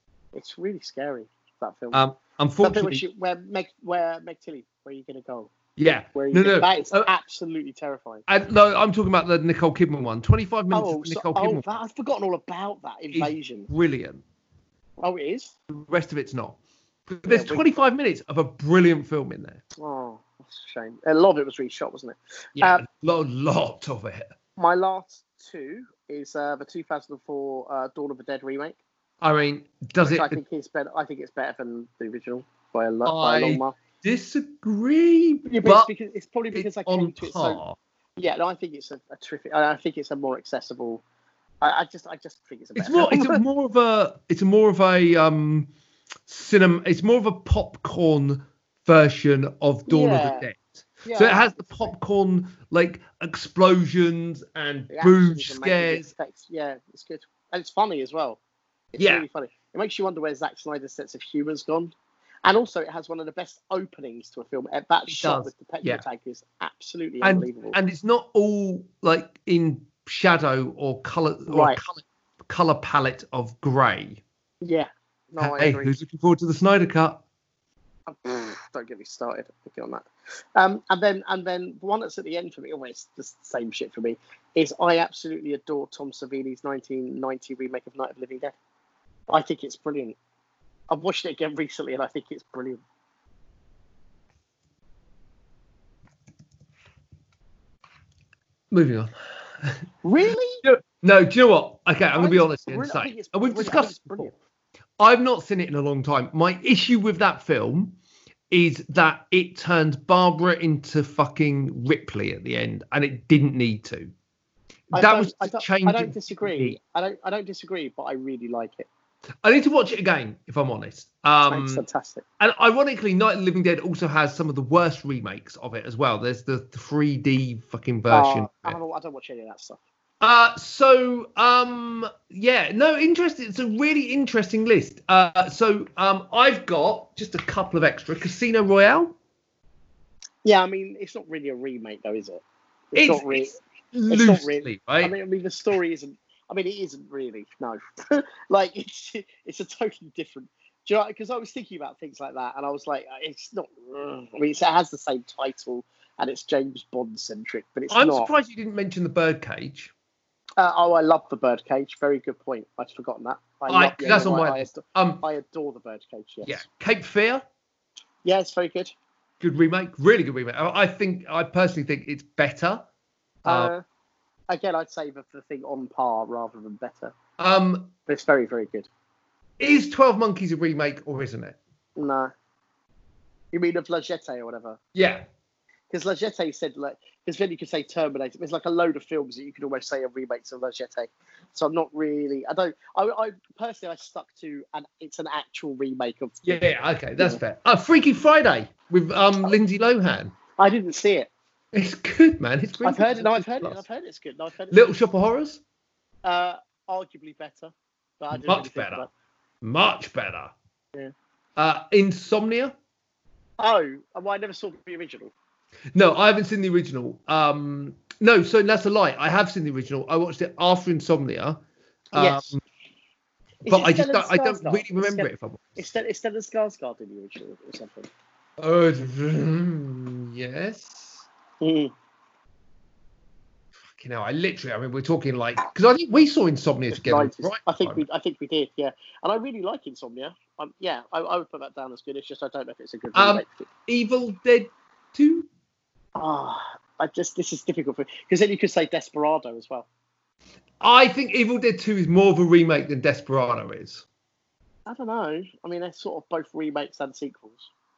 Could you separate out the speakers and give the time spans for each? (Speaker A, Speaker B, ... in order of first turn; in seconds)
Speaker A: 0.3-2.0, 2.6-5.5, 6.1-8.2, 10.7-13.7, 15.0-15.5, 17.3-17.6, 19.8-22.8, 24.6-28.8, 30.0-33.8, 35.5-37.6, 38.2-41.0, 41.6-43.4, 49.9-50.5, 51.0-51.8, 54.9-58.4, 58.9-61.9, 62.4-67.8, 71.5-71.8, 74.6-76.0, 78.1-88.5, 89.3-90.2, 90.9-92.8, 100.0-100.6, 102.1-104.3, 114.9-118.9, 121.5-122.2, 128.1-129.8, 140.4-143.6, 144.1-158.3, 160.6-166.6, 168.2-168.9, 173.4-173.8, 174.5-177.1, 178.1-178.9, 182.0-182.3, 183.5-184.8, 185.9-196.6, 200.6-201.3, 202.8-204.9, 206.2-209.1, 213.6-215.3, 222.1-222.5, 223.6-228.1, 231.6-231.9, 236.9-243.7, 246.2-249.9, 254.8-257.7
Speaker B: 1.9-3.0, 5.8-7.1, 8.3-11.7, 13.1-14.2, 15.7-19.6, 22.6-24.3, 29.2-30.4, 33.0-35.9, 36.5-37.8, 42.8-45.7, 46.3-56.1, 59.0-59.2, 65.1-66.0, 67.2-74.2, 75.4-77.2, 98.7-99.8, 100.6-104.3, 105.0-108.0, 108.5-114.1, 114.9-116.8, 119.4-121.8, 122.4-128.8, 130.2-139.1, 142.9-145.1, 157.9-159.9, 163.7-165.2, 166.4-167.4, 169.4-172.8, 173.5-173.7, 177.4-177.9, 179.6-181.6, 184.9-185.2, 196.4-200.3, 201.7-203.8, 204.7-205.6, 208.3-209.1, 209.6-210.5, 211.6-212.7, 215.9-221.6, 222.1-222.6, 223.7-225.8, 228.6-231.2, 233.9-238.0, 243.1-245.5, 250.8-254.0